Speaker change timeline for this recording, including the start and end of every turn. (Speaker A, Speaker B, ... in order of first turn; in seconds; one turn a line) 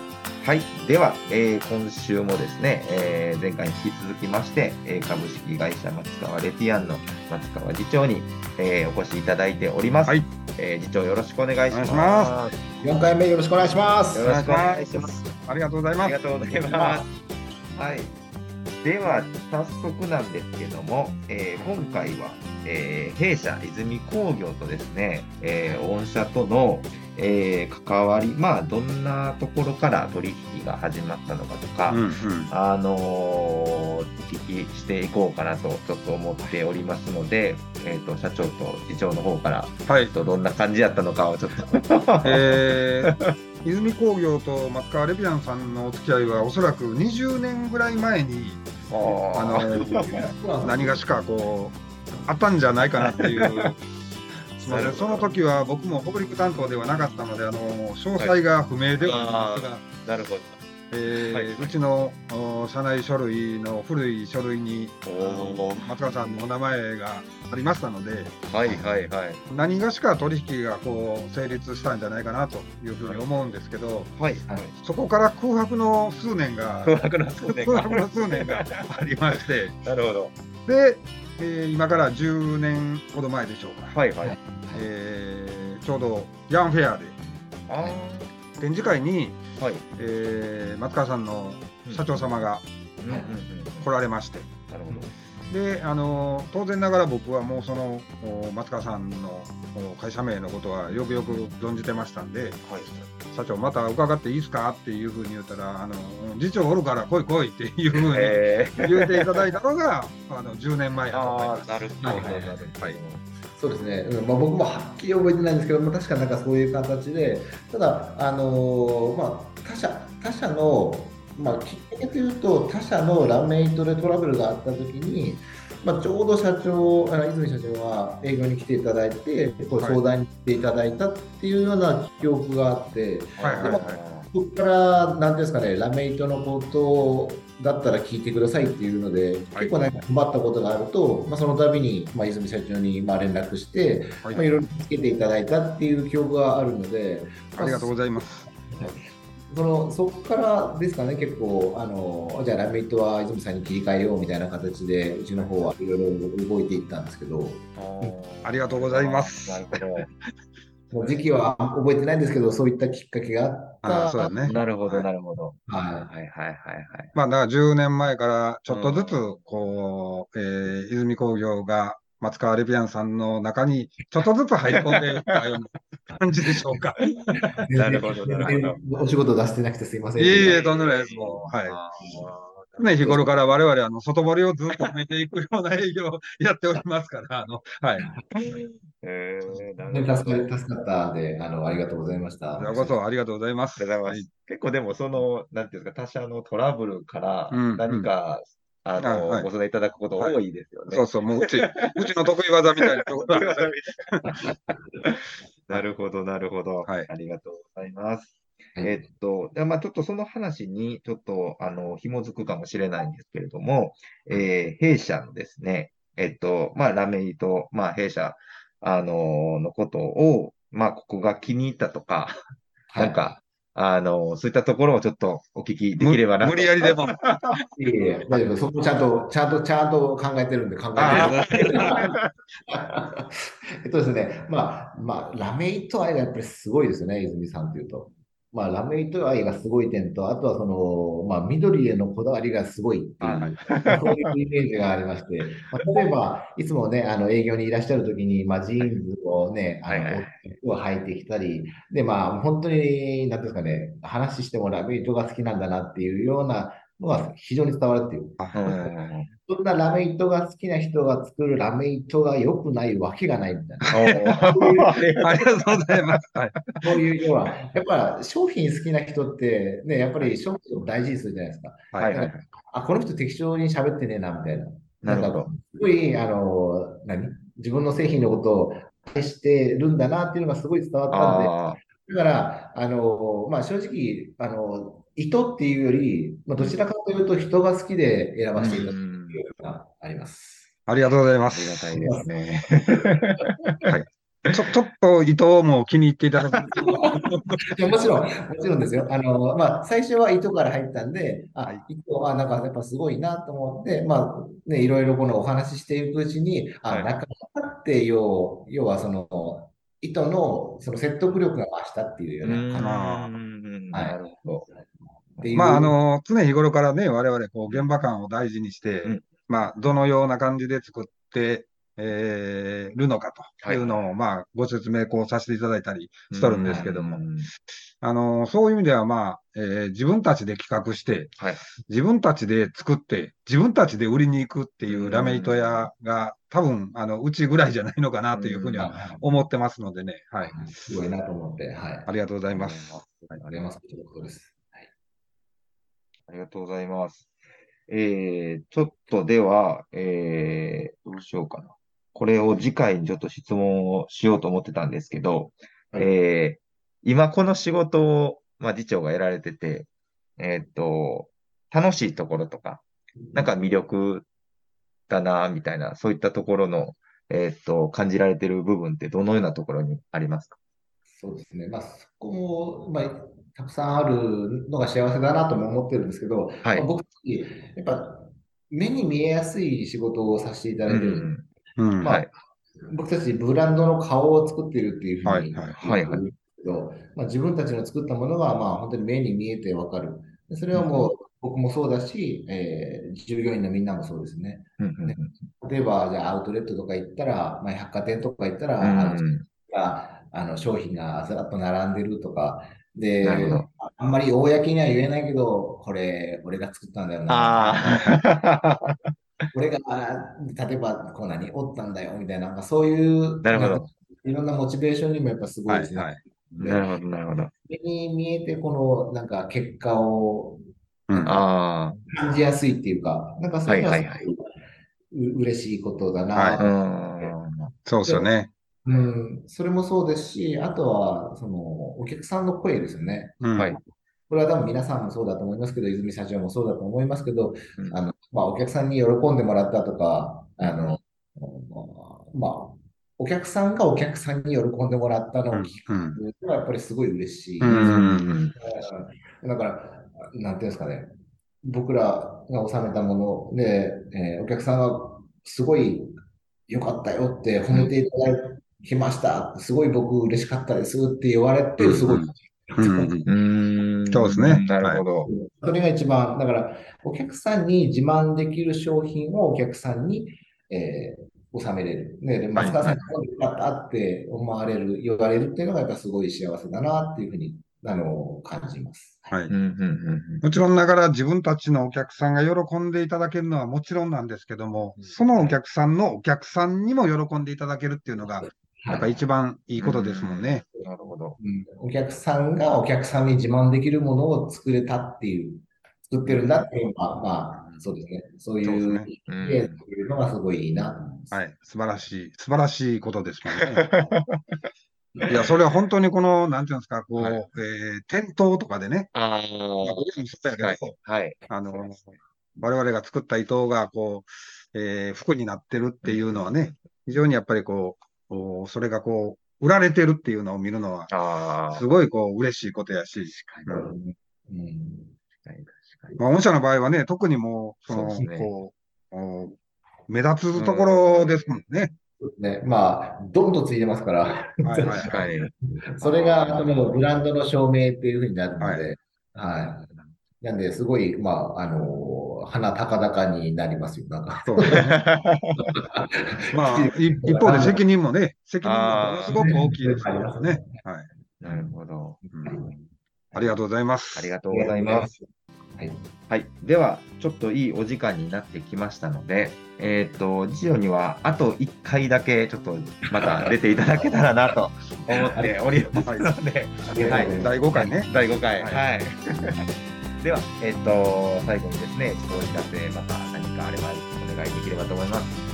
Speaker A: 0.4-12.5
Speaker B: 11.7-12.4
Speaker C: 12.8-14.2
Speaker A: 14.1-15.2
Speaker B: 14.2-16.2
Speaker A: 16.0-17.1
Speaker B: 16.8-17.0
Speaker A: 17.7-18.1
Speaker A: 18.8-43.3
Speaker B: 31.9-32.5
Speaker B: 39.9-40.1
Speaker B: 42.2-53.8
Speaker A: 48.9-50.2
Speaker C: 50.0-51.1
Speaker A: 53.0-53.7
Speaker B: 54.6-59.8
Speaker A: 54.6-55.3
Speaker A: 59.0-60.6
Speaker B: 60.9-68.4
Speaker A: 61.1-61.8
Speaker A: 65.0-65.9
Speaker A: 68.5-69.4
Speaker B: 69.5-74.1
Speaker A: 73.0-73.5
Speaker A: 74.1-74.7
Speaker B: 74.8-79.8
Speaker A: 76.8-78.8
Speaker A: 79.8-80.3
Speaker B: 80.7-84.0
Speaker A: 83.9-84.3
Speaker C: 84.2-84.9
Speaker B: 84.7-87.2
Speaker A: 87.7-88.3
Speaker B: 88.6-89.4
Speaker A: 89.6-89.8
Speaker B: 90.0-92.7
Speaker A: 91.8-92.3
Speaker A: 93.0-93.9
Speaker B: 93.8-94.5
Speaker A: 94.7-95.1
Speaker B: 95.5-102.6
Speaker A: 100.9-101.4
Speaker A: 102.6-103.1
Speaker B: 103.2-113.0
Speaker A: 108.0-109.4
Speaker A: 111.1-113.2
Speaker C: 112.0-112.6
Speaker C: 113.5-158.2
Speaker A: 133.4-134.3
Speaker B: 133.4-134.0
Speaker B: 139.5-140.0
Speaker B: 147.5-148.4
Speaker A: 157.8-160.1
Speaker B: 158.4-160.1
Speaker C: 160.9-165.1
Speaker B: 163.8-164.5
Speaker A: 164.4-167.1
Speaker C: 165.7-166.1
Speaker B: 167.1-177.6
Speaker A: 168.7-169.5
Speaker A: 174.7-175.4
Speaker A: 177.2-178.8
Speaker C: 177.6-180.6
Speaker B: 180.2-181.8
Speaker A: 180.4-182.9
Speaker B: 182.8-188.1
Speaker C: 183.0-183.2
Speaker A: 188.3-190.5
Speaker C: 189.9-193.0
Speaker B: 192.6-194.3
Speaker A: 193.8-202.1
Speaker B: 197.5-198.1
Speaker B: 199.0-199.5
Speaker B: 200.9-204.3
Speaker A: 202.7-204.5
Speaker A: 205.0-222.3
Speaker C: 222.9-223.3
Speaker A: 223.0-227.1
Speaker B: 226.0-227.7
Speaker C: 227.8-232.1
Speaker B: 230.9-232.0
Speaker A: 231.0-232.2
Speaker C: 232.7-258.9
Speaker A: 243.2-244.2
Speaker A: 249.8-250.4
Speaker B: 258.4-258.7
Speaker A: 258.5-259.3
Speaker C: 259.4-265.6
Speaker A: 263.9-266.2
Speaker B: 265.2-266.6
Speaker C: 266.8-290.7
Speaker A: 272.0-272.4
Speaker A: 275.0-275.5
Speaker A: 281.1-281.8
Speaker A: 288.6-289.4
Speaker B: 290.9-291.9
Speaker A: 291.5-293.9
Speaker C: 291.9-293.1
Speaker B: 293.9-297.6
Speaker A: 296.4-297.0
Speaker C: 297.6-313.0
Speaker A: 306.9-307.1
Speaker A: 312.4-314.7
Speaker B: 312.8-313.3
Speaker C: 313.9-314.2
Speaker C: 315.4-315.9
Speaker B: 315.5-327.2
Speaker A: 319.0-319.3
Speaker A: 323.6-324.0
Speaker A: 326.3-327.5
Speaker B: 328.0-331.3
Speaker A: 331.4-331.7
Speaker B: 331.9-340.9
Speaker A: 334.9-335.9
Speaker A: 338.3-338.9
Speaker C: 338.8-339.3
Speaker C: 340.4-342.1
Speaker B: 342.1-343.1
Speaker A: 342.5-343.6
Speaker C: 343.5-344.9
Speaker A: 346.3-347.3
Speaker A: 347.9-364.2
Speaker C: 363.2-363.5
Speaker A: 365.1-370.6
Speaker C: 371.1-381.3
Speaker A: 380.9-381.4
Speaker B: 381.8-382.2
Speaker C: 382.0-382.4
Speaker A: 382.0-382.3
Speaker C: 382.9-408.0
Speaker B: 385.2-385.8
Speaker A: 385.8-386.2
Speaker A: 390.7-391.1
Speaker A: 394.8-395.4
Speaker A: 398.8-399.5
Speaker A: 403.2-403.7
Speaker A: 407.3-409.1
Speaker C: 409.5-416.9
Speaker A: 413.4-413.9
Speaker B: 415.7-416.2
Speaker A: 416.6-417.5
Speaker C: 417.6-420.6
Speaker B: 421.1-421.4
Speaker A: 421.2-422.0
Speaker C: 422.1-424.4
Speaker A: 423.6-424.3
Speaker C: 425.1-427.3
Speaker B: 426.3-426.6
Speaker A: 426.6-427.5
Speaker B: 427.9-428.5
Speaker C: 428.0-428.3
Speaker C: 428.8-433.4
Speaker B: 433.4-433.8
Speaker C: 434.3-451.1
Speaker A: 440.6-440.9
Speaker B: 445.5-446.2
Speaker B: 447.6-448.3
Speaker A: 447.7-448.6
Speaker C: 451.6-456.1
Speaker C: 456.7-463.1
Speaker B: 461.8-463.3
Speaker A: 463.2-465.3
Speaker B: 464.1-465.0
Speaker C: 465.2-479.4
Speaker B: 472.6-473.0
Speaker A: 479.5-480.4
Speaker B: 480.4-490.7
Speaker C: 488.8-489.1
Speaker A: 489.8-491.4
Speaker C: 491.4-501.4
Speaker A: 496.3-496.6
Speaker B: 497.5-497.8
Speaker B: 498.6-499.1
Speaker A: 499.3-499.8
Speaker B: 501.3-503.9
Speaker A: 503.5-504.6
Speaker B: 505.3-509.1
Speaker A: 507.1-507.4
Speaker A: 509.1-511.5
Speaker B: 509.8-510.9
Speaker B: 511.5-521.1
Speaker A: 516.0-516.7
Speaker A: 521.1-521.8
Speaker B: 521.7-523.9
Speaker A: 523.2-523.8
Speaker C: 523.7-525.1
Speaker A: 525.4-526.2
Speaker B: 526.2-529.6
Speaker A: 527.9-528.5
Speaker B: 530.1-531.9
Speaker A: 530.5-531.6
Speaker C: 532.2-535.2
Speaker B: 534.6-535.1
Speaker A: 535.0-537.0
Speaker C: 535.9-539.9
Speaker A: 539.9-540.1
Speaker C: 540.4-544.9
Speaker B: 544.5-545.0
Speaker A: 544.7-545.6
Speaker C: 545.5-547.8
Speaker B: 546.5-551.1
Speaker A: 548.6-549.5
Speaker C: 549.3-550.8
Speaker A: 551.4-552.8
Speaker C: 551.4-551.7
Speaker C: 552.2-552.7
Speaker B: 552.3-552.6
Speaker B: 553.3-554.3
Speaker A: 554.1-555.1
Speaker C: 554.5-556.1
Speaker A: 556.3-569.6
Speaker B: 566.0-566.3
Speaker C: 566.9-567.9
Speaker B: 567.0-568.8
Speaker A: 570.2-575.4